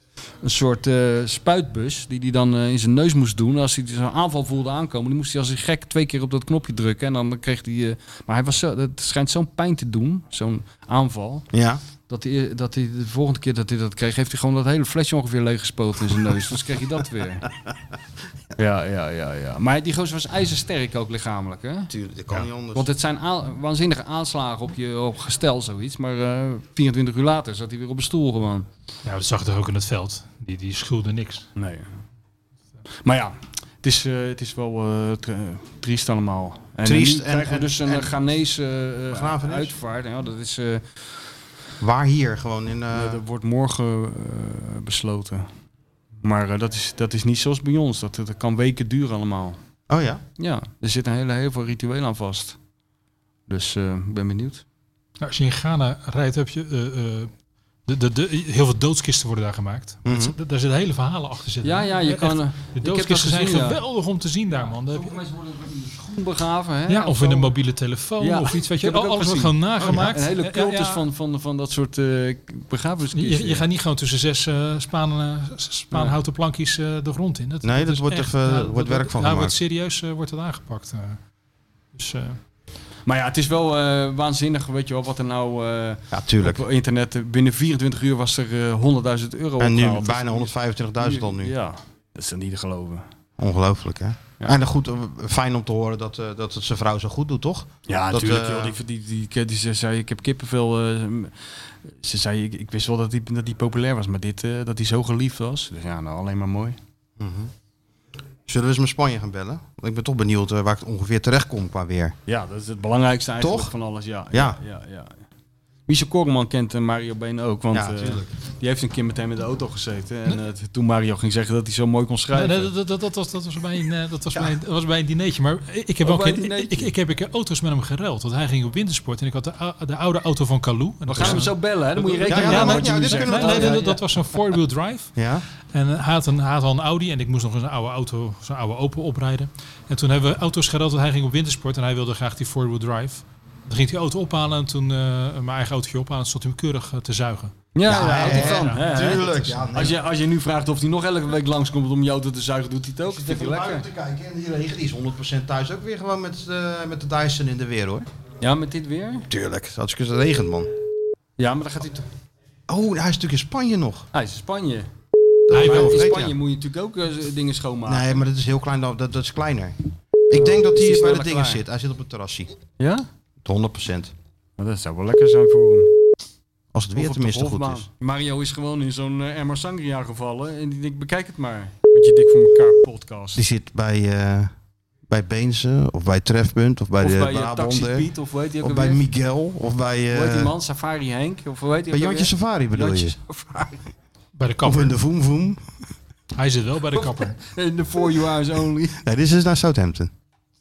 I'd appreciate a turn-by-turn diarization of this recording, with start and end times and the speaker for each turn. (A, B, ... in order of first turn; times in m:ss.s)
0:00.4-0:11.5 A
0:11.5-0:11.8 B
0:12.1-0:17.5 A
0:18.6-0:21.9 A
0:21.9-0:22.9 B
0:22.7-0:28.7 A
0:29.0-0:31.5 C
0:31.6-0:31.9 A
0:33.0-0:41.0 A
0:36.8-0:38.2 B
0:39.1-0:39.7 B
0:41.8-0:43.2 B
0:42.9-0:45.5 A
0:46.2-0:49.6 A
0:49.9-0:50.2 B
0:50.4-0:52.6 A
0:53.5-0:54.6 A
0:55.2-0:57.3 C
0:57.9-1:05.2 C
1:00.0-1:00.3 B
1:01.6-1:03.8 A
1:04.5-1:07.6 A
1:06.9-1:11.0 C
1:08.2-1:13.6 A
1:09.8-1:10.1 B
1:13.1-1:21.2 C
1:15.9-1:16.2 A
1:17.6-1:19.6 B
1:22.0-1:22.4 C
1:23.0-1:33.0 A
1:26.1-1:26.6 B
1:29.6-1:31.5 B
1:33.4-1:38.8 B
1:37.9-1:46.8 A
1:47.2-1:47.5 B
1:48.5-1:52.1 B
1:52.3-1:55.2 A
1:53.4-1:53.7 B
1:54.3-1:54.6 B
1:55.9-2:02.7 A
1:57.7-1:58.3 B
2:02.3-2:15.1 C
2:06.0-2:06.9 A
2:11.0-2:14.0 A
2:12.3-2:13.9 B
2:15.2-2:15.4 B
2:15.7-2:29.4 C
2:27.7-2:33.9 A
2:27.9-2:30.0 B
2:33.0-2:38.1 B
2:38.4-2:39.3 A
2:39.3-2:40.7 B
2:41.4-2:42.1 A
2:42.7-2:44.1 B
2:44.1-2:44.9 A
2:45.5-2:46.3 B
2:45.5-2:48.2 A
2:45.6-2:45.8 C
2:47.9-2:49.8 B
2:50.3-2:52.6 B
2:50.3-2:51.6 A
2:52.8-2:53.0 A
2:53.4-2:54.1 B
2:54.6-2:55.9 A
2:56.7-2:57.9 B
2:56.9-3:03.4 A
3:03.3-3:04.5 B
3:05.1-3:08.1 B
3:07.0-3:09.0 A
3:08.6-3:10.5 B
3:10.1-3:13.9 A
3:11.9-3:13.1 B
3:14.4-3:15.0 C
3:14.6-3:15.6 B
3:16.3-3:17.4 C
3:16.9-3:19.0 A
3:19.0-3:20.1 B